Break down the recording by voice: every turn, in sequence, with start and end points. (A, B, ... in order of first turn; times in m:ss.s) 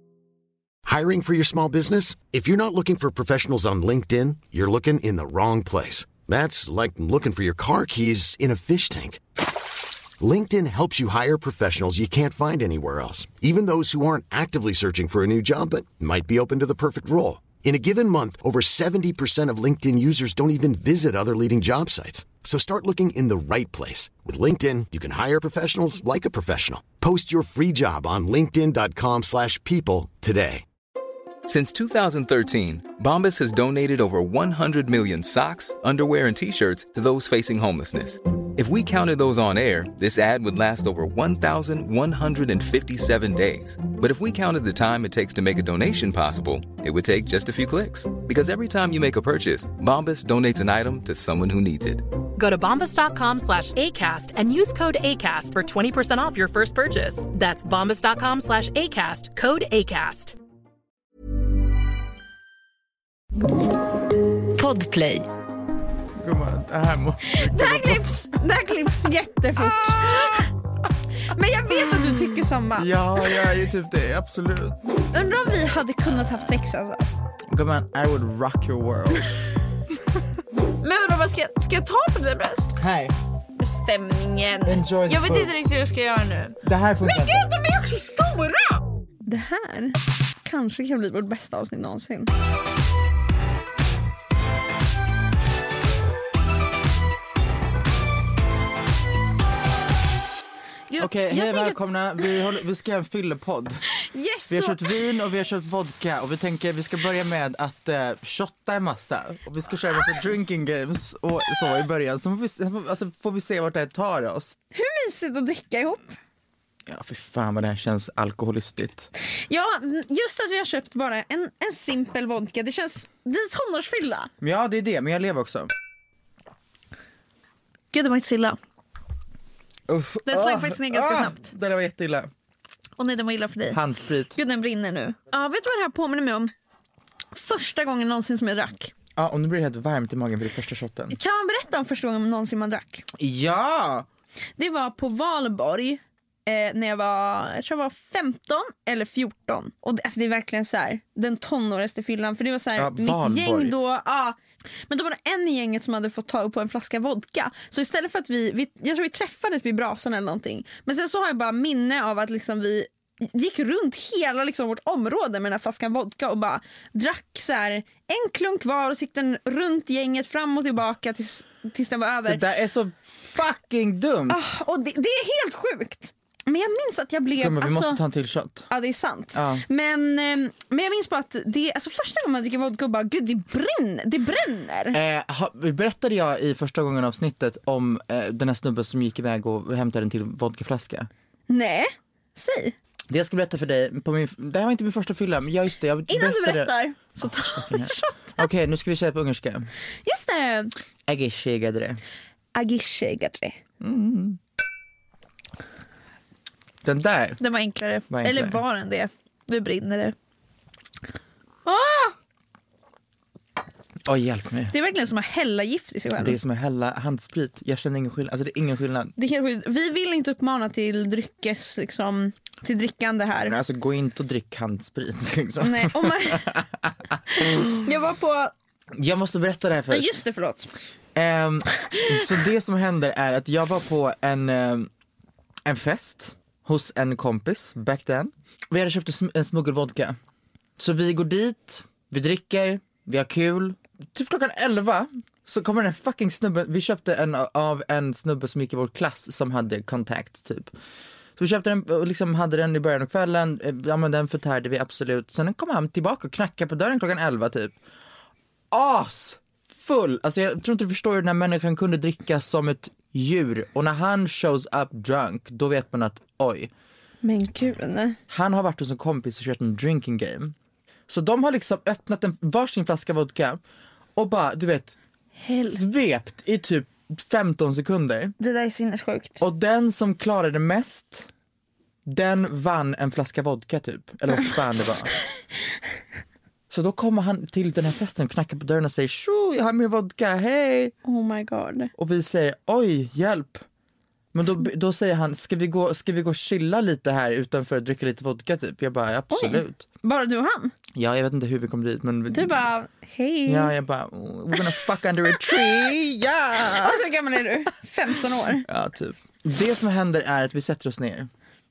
0:00.8-0:09.2 A
0:10.2-0:30.6 A
0:31.5-0:52.0 B
0:52.4-1:00.4 C
1:06.2-1:08.1 D
1:07.3-1:10.5 E
1:09.6-1:10.5 D
1:11.3-1:13.5 E
1:11.7-1:14.8 D
1:15.1-1:17.1 E
1:15.3-1:15.8 D
1:17.5-1:19.4 D
1:20.8-1:22.8 E
1:22.8-1:23.1 D
1:23.6-1:32.3 E
1:24.6-1:25.7 D
1:26.6-1:27.4 D
1:40.9-1:42.3 E
1:41.0-1:43.8 D
1:44.0-1:45.1 E
1:44.5-1:54.6 D
1:54.7-1:56.2 E
1:56.9-1:59.1 D
1:59.3-2:04.3 E
2:04.4-2:05.7 D
2:07.9-2:08.6 E
2:09.9-2:12.3 D
2:10.3-2:11.5 E
2:13.0-2:13.8 E
2:13.7-2:14.4 D
2:14.3-2:16.5 E
2:17.3-2:18.9 E
2:19.2-2:21.2 D
2:21.1-2:23.0 E
2:23.2-2:24.1 D
2:24.6-2:34.4 E
2:32.8-2:33.7 D
2:34.9-2:52.4 E
2:52.2-2:54.4 D
2:54.3-2:58.0 E
2:57.4-2:58.7 D
2:58.7-3:05.0 E
2:59.3-2:59.6 D
3:04.9-3:11.1 D
3:11.5-3:12.8 E
3:13.1-3:19.7 D
3:16.1-3:18.4 E
3:20.0-3:20.7 E
3:21.1-3:22.0 D
3:22.5-3:23.6 E
3:23.8-3:24.4 D
3:26.8-3:27.4 D
3:27.4-3:30.1 E
3:28.1-3:28.6 D
3:31.6-3:32.1 E
3:34.0-3:34.7 D
3:34.7-3:36.4 E
3:36.2-3:39.1 D
3:39.2-3:43.5 E
3:43.4-3:47.6 D
3:45.6-3:46.4 E
3:47.6-3:48.5 E
3:48.9-3:50.1 D
3:49.9-3:50.7 E
3:51.1-3:54.9 D
3:51.8-3:52.2 E
3:55.6-4:00.2 D
4:00.8-4:10.7 D
4:11.4-4:17.8 D
4:18.7-4:26.7 D
4:27.2-4:28.2 E
4:28.3-4:30.5 D
4:31.1-4:33.6 D
4:34.2-4:35.0 D
4:35.4-4:35.8 E
4:35.5-4:38.3 D
4:38.4-4:39.4 E
4:39.4-4:41.3 D
4:42.0-4:45.1 D
4:46.7-4:50.9 D
4:51.0-4:51.9 E
4:52.0-4:53.6 D
4:54.3-4:59.8 D
4:59.3-5:00.7 E
5:00.9-5:02.6 D
5:02.3-5:03.7 E
5:03.4-5:07.0 D
5:06.6-5:08.7 E
5:08.6-5:11.3 D